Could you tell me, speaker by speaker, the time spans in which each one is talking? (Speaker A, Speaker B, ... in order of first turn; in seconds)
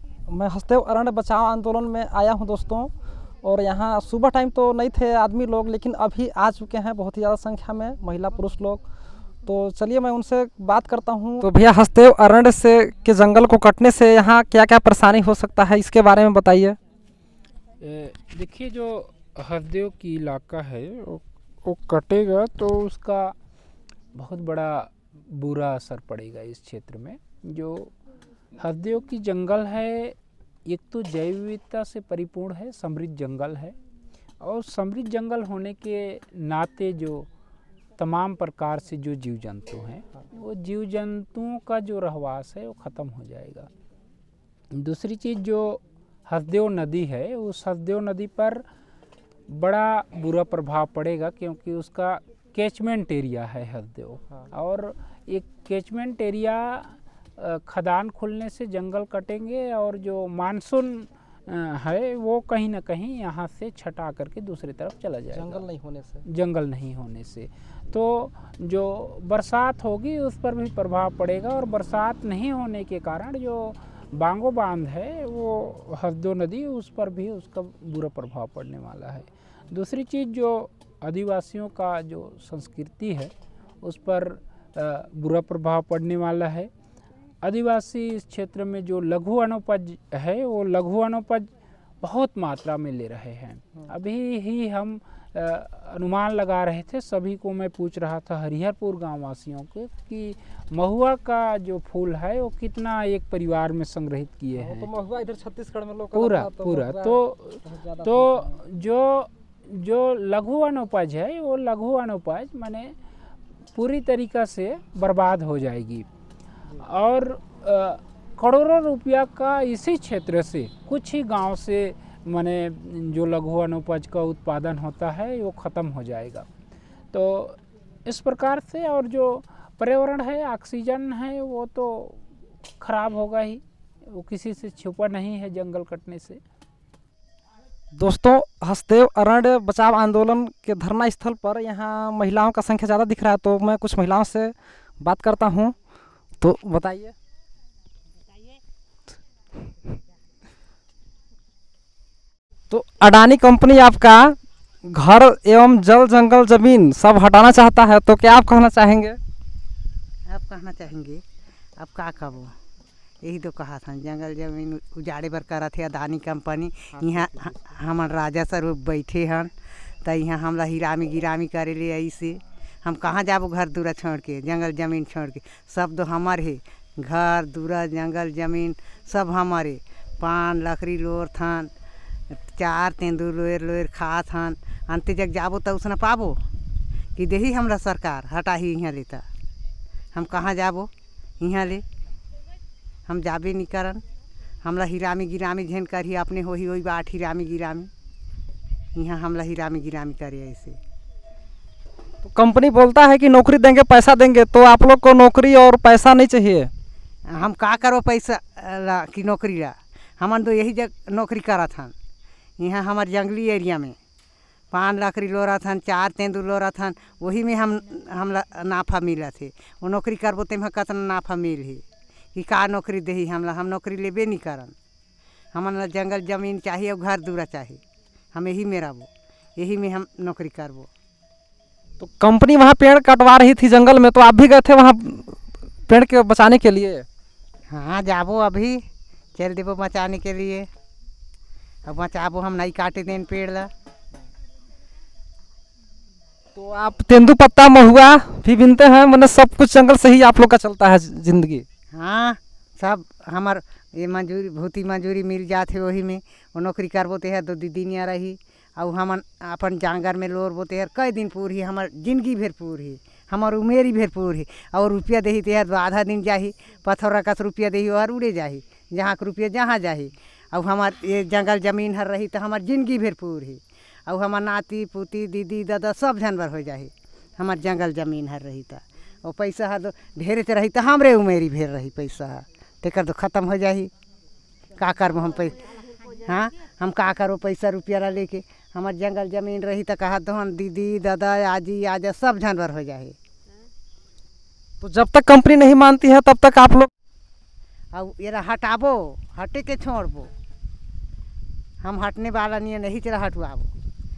Speaker A: 0.3-8.8, 9.4-16.8, 65.3-66.2, 104.5-108.6, 137.9-145.7, 146.4-147.1, 152.7-159.2, 167.0-167.5, 202.2-206.7, 232.0-237.1, 246.6-251.6, 294.8-296.9
Speaker B: 17.8-23.3, 24.1-27.9, 28.6-33.8, 34.4-37.3, 38.0-43.7, 44.7-48.6, 49.5-65.7, 66.3-83.3, 83.8-86.7, 87.4-91.5, 92.0-104.9, 106.1-112.9, 113.7-116.0, 116.8-126.5, 127.1-132.2, 132.8-136.4
Speaker C: 160.3-161.2, 161.8-162.5, 163.2-169.5, 170.0-181.7, 182.5-186.4, 187.2-189.2, 190.1-190.9, 191.4-191.8, 193.1-194.0, 194.6-197.9, 198.9-200.8, 207.3-211.9, 212.6-213.9, 214.7-221.8, 222.3-224.7, 225.5-227.8, 228.3-230.9, 237.7-238.8, 239.3-240.7, 241.8-243.7, 251.9-283.9, 284.8-293.1, 297.9-300.3, 301.8-303.7